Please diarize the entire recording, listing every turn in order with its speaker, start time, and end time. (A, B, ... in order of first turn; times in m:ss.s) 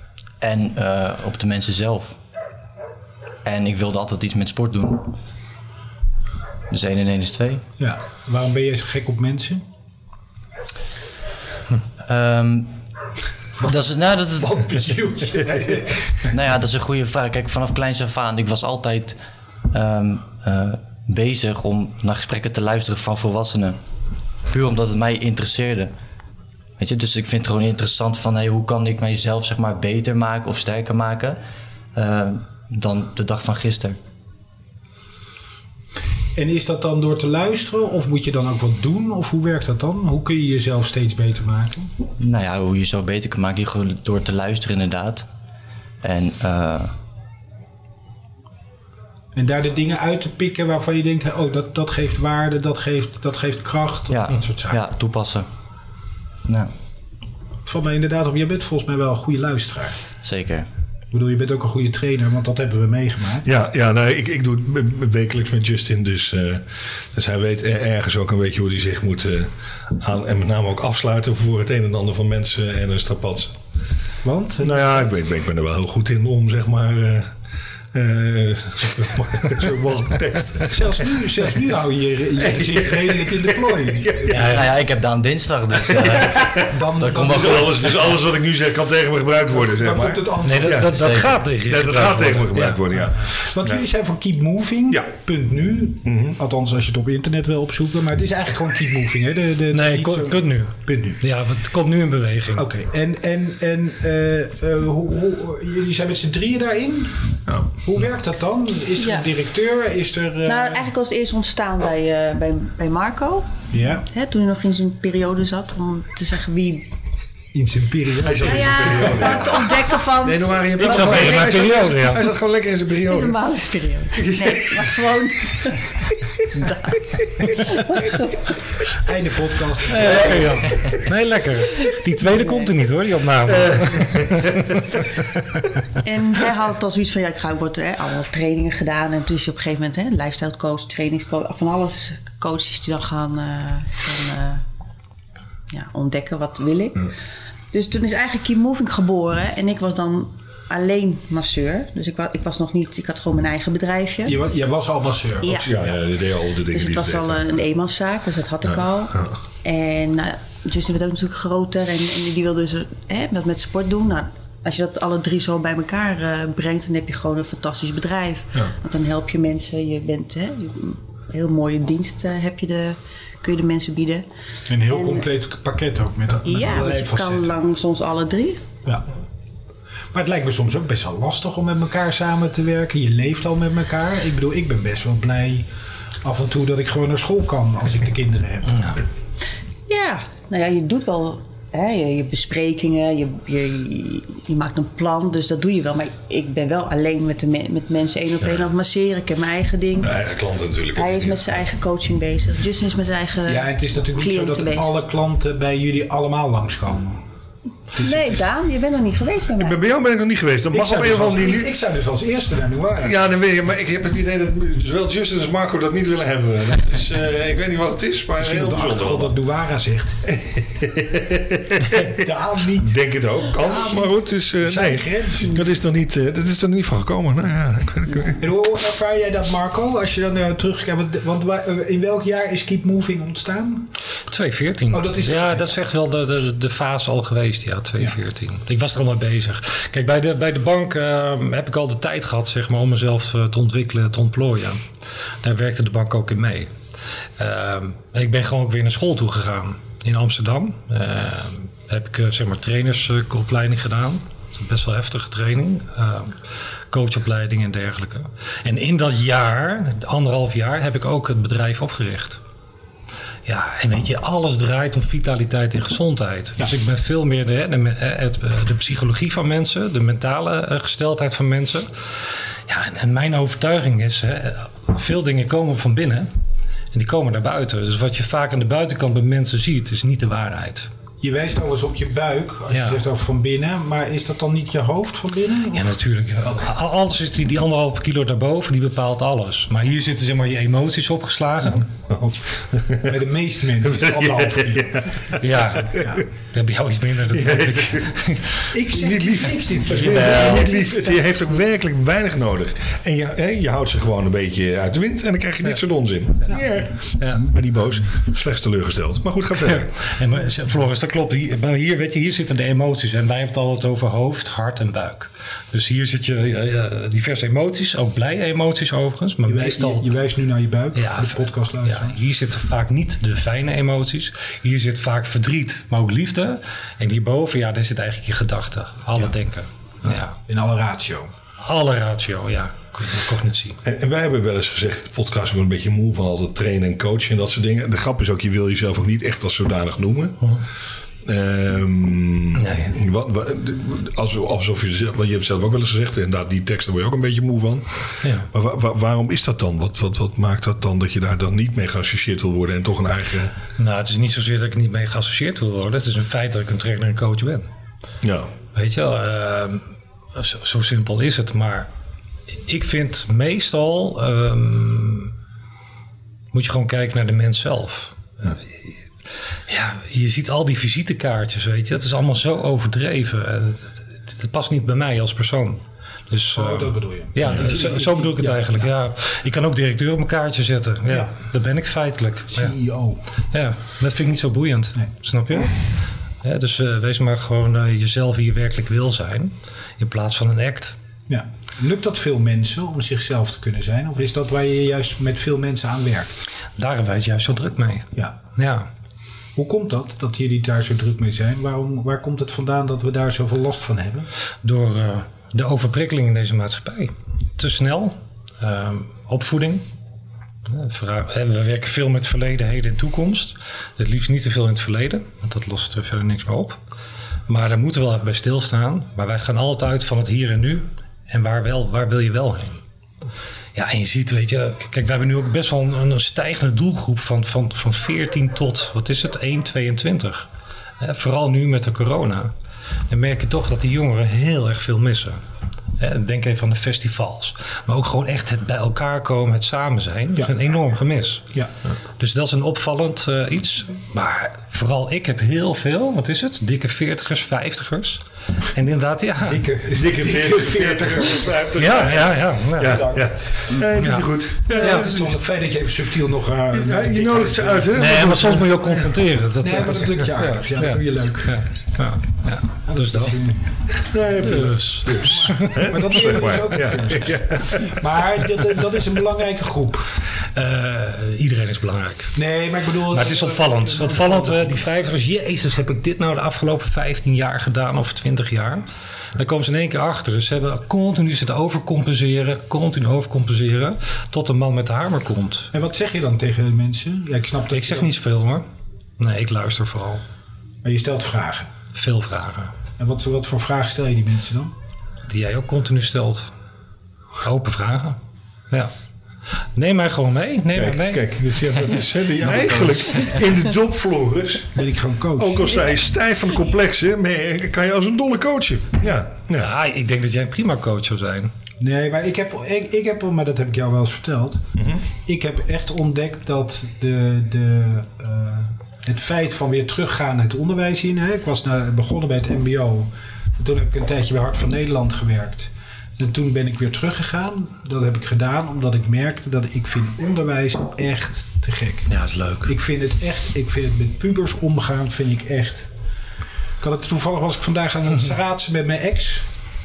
0:00.4-0:02.2 A
0:03.4-0:05.1 A
0:06.7-0:07.6 A
0:07.8-0:09.6 B
0:12.0-0:12.7 A
0:13.6-0:14.9 A
0:14.4-0:16.3 B
0:16.3-0:19.2 A
0:19.7-0:23.8 A
0:24.5-0:25.9 A
0:26.8-0:31.4 A
0:32.0-0:34.0 A
0:36.4-0:41.9 B
0:42.2-0:45.3 A
0:46.0-0:46.9 A
0:49.4-0:54.8 B
0:54.1-0:55.5 A
0:56.5-0:56.7 A
0:57.7-1:00.0 B
1:00.2-1:00.7 A
1:01.1-1:03.5 B
1:03.4-1:13.6 C
1:14.2-1:14.9 B
1:14.6-1:17.4 C
1:17.9-1:21.1 C
1:20.7-1:24.6 B
1:22.4-1:24.5 C
1:24.3-1:28.0 A
1:24.3-1:24.7 D
1:25.9-1:26.7 C
1:26.6-1:27.8 B
1:27.3-1:33.8 C
1:29.6-1:30.9 B
1:30.4-1:32.8 D
1:30.9-1:31.3 A
1:33.3-1:41.2 B
1:36.0-1:36.4 C
1:39.7-1:42.7 D
1:42.6-1:50.9 B
1:49.0-1:49.2 E
1:50.5-1:53.5 E
1:53.7-1:54.1 B
1:54.1-1:56.9 E
1:57.5-1:59.4 B
1:58.2-2:03.4 C
1:58.4-2:01.9 E
2:00.8-2:02.3 D
2:03.0-2:08.5 E
2:04.2-2:04.9 C
2:08.9-2:10.6 B
2:09.9-2:15.1 D
2:12.2-2:12.7 E
2:13.6-2:14.8 C
2:16.0-2:24.6 E
2:25.7-2:27.1 E
2:27.7-2:34.4 E
2:34.2-2:35.7 B
2:35.4-2:35.8 E
2:35.5-2:37.6 C
2:36.7-2:54.3 E
2:38.6-2:39.3 C
2:54.7-2:57.6 B
2:54.9-2:55.3 E
2:56.4-2:58.6 E
3:00.1-3:05.7 B
3:06.2-3:09.0 B
3:09.9-3:20.2 E
3:18.4-3:18.7 C
3:20.0-3:21.6 C
3:21.0-3:24.9 E
3:23.5-3:27.2 B
3:27.9-3:28.4 B
3:28.0-3:29.8 E
3:29.6-3:31.7 C
3:30.7-3:33.2 B
3:33.0-3:39.3 C
3:38.4-3:40.2 B
3:40.3-3:48.4 C
3:42.1-3:43.0 B
3:43.6-3:45.6 B
3:48.4-3:53.9 B
3:54.3-4:04.8 D
3:54.9-3:55.7 B
4:05.4-4:06.7 D
4:07.4-4:22.4 D
4:23.4-4:32.1 D
4:32.7-4:36.3 D
4:36.9-4:40.9 D
4:41.2-4:45.9 B
4:42.7-4:43.0 D
4:45.7-4:51.9 D
4:52.1-4:53.1 C
4:53.0-4:55.4 B
4:53.8-4:56.2 C
4:55.4-4:58.7 D
4:56.0-4:56.2 B
4:57.3-4:58.2 C
4:58.7-5:01.2 B
4:58.9-5:09.9 C
5:07.2-5:07.4 D
5:09.6-5:20.1 D
5:19.5-5:22.2 B
5:21.0-5:30.4 D
5:30.5-5:31.3 B
5:31.6-5:33.8 D
5:33.8-5:40.5 C
5:41.2-5:53.5 C
5:42.6-5:42.9 D
5:48.2-5:48.5 D
5:53.8-5:57.7 D
5:58.2-5:58.5 C
5:58.7-6:01.9 D
6:02.5-6:05.3 D
6:06.5-6:08.9 D
6:09.7-6:22.7 D
6:16.5-6:18.9 B
6:22.5-6:23.2 B
6:23.5-6:25.9 D
6:26.4-6:31.0 D
6:31.3-6:36.4 B
6:36.8-6:38.9 D
6:39.6-6:44.3 B
6:44.6-6:49.9 D
6:50.7-6:56.8 D
6:57.5-7:02.8 D
7:03.8-7:10.5 D
7:11.0-7:12.5 D
7:13.1-7:15.4 D
7:16.0-7:21.5 D
7:22.2-7:29.7 D
7:29.4-7:31.6 B
7:29.9-7:35.4 C
7:31.8-7:33.0 D
7:32.9-7:33.3 B
7:34.0-7:35.1 D
7:34.7-7:41.6 B
7:36.7-7:38.8 C
7:37.9-7:43.4 D
7:42.9-7:50.2 B
7:44.1-7:48.0 C
7:44.4-7:46.0 D
7:50.4-7:52.4 D
7:52.4-7:54.8 B
7:53.0-7:58.8 D
7:59.4-8:05.7 D
8:05.7-8:08.1 B
8:07.7-8:08.6 D
8:09.2-8:10.2 D
8:10.8-8:11.7 B
8:11.9-8:12.8 D
8:13.0-8:14.7 B
8:15.3-8:16.5 D
8:17.4-8:18.2 D
8:19.7-8:21.3 D
8:20.7-8:24.8 C
8:24.8-8:25.7 B
8:25.4-8:29.8 C
8:29.6-8:31.5 D
8:31.8-8:34.7 B
8:34.8-8:35.0 C
8:35.2-8:52.1 B
8:52.1-8:52.7 D
8:52.6-8:55.9 B
8:56.8-8:59.5 B